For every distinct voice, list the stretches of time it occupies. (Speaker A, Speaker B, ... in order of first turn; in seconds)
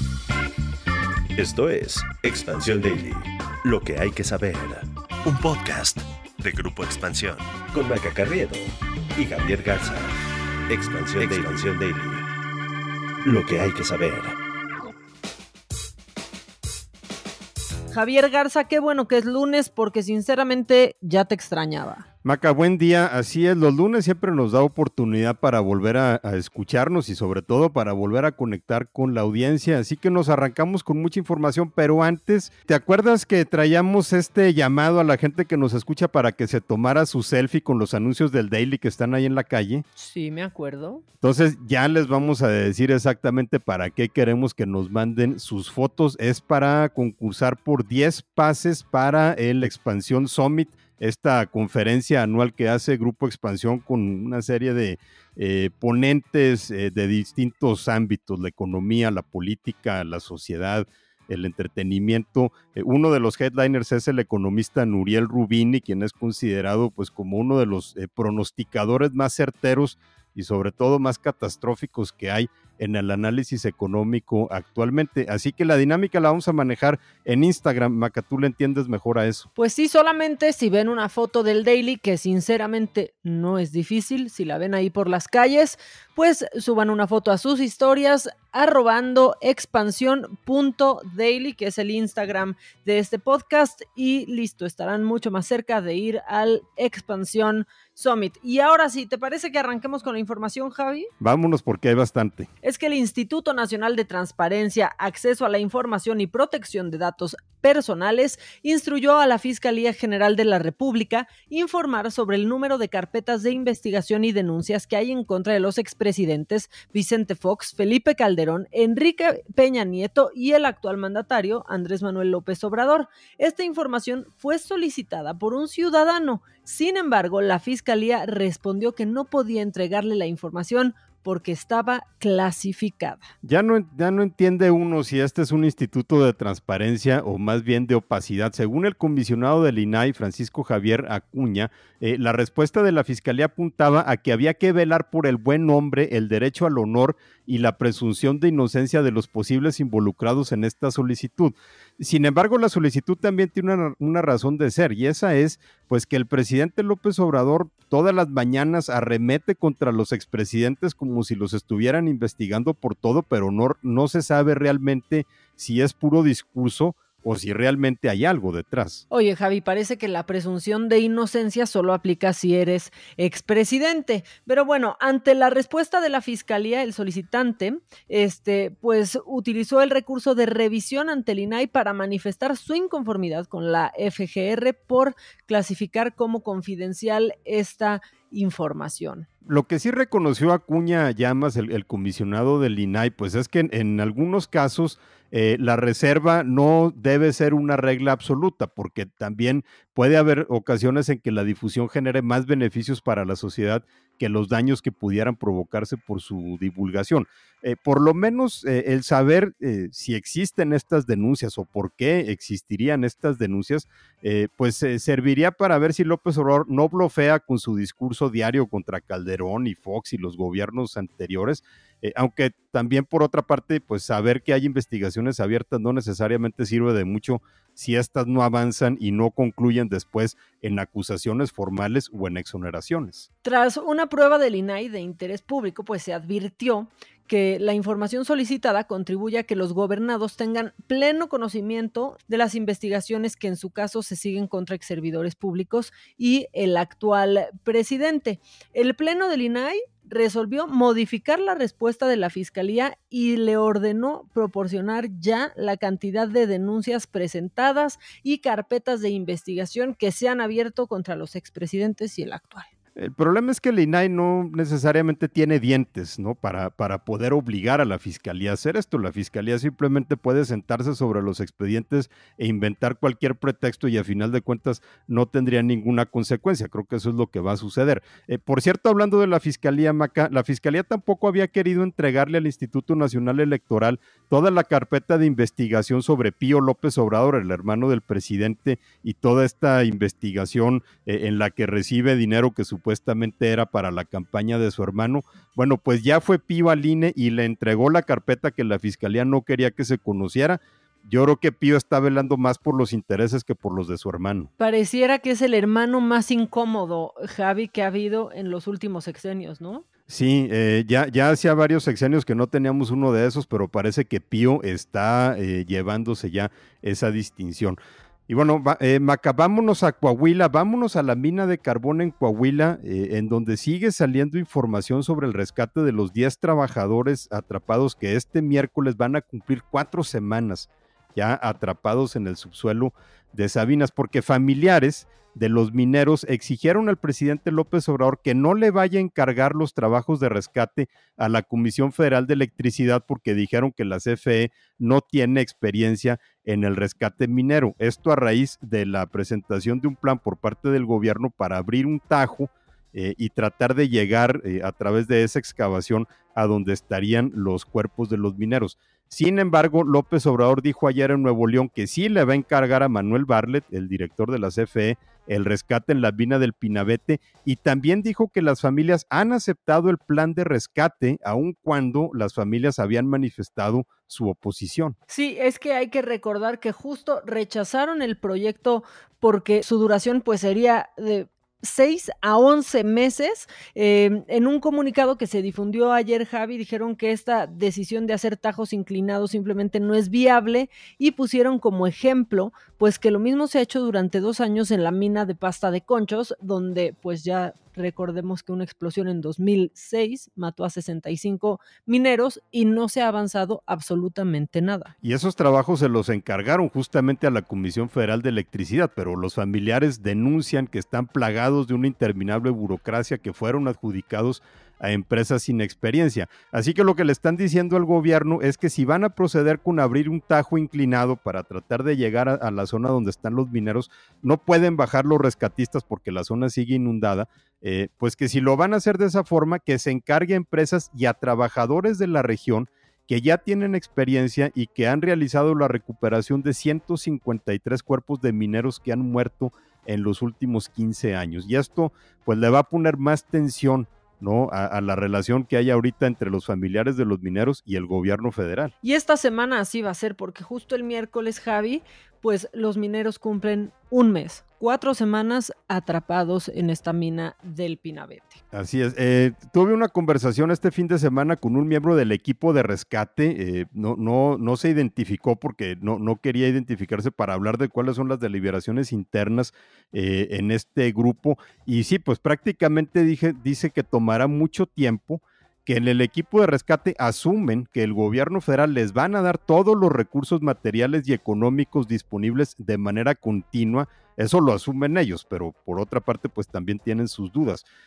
Speaker A: 1.4-10.1, 10.7-12.2, 13.2-14.3
Speaker B: 11.2-11.6, 22.2-39.8, 41.2-79.5, 101.2-102.5, 133.4-169.0, 189.4-233.3, 263.0-304.5, 310.1-374.9, 405.0-448.7, 458.5-487.6
Speaker C: 17.9-22.0, 40.0-41.0, 79.6-101.1, 102.6-133.3, 169.1-189.2, 233.4-262.7, 304.6-309.8, 375.1-404.9, 448.8-458.4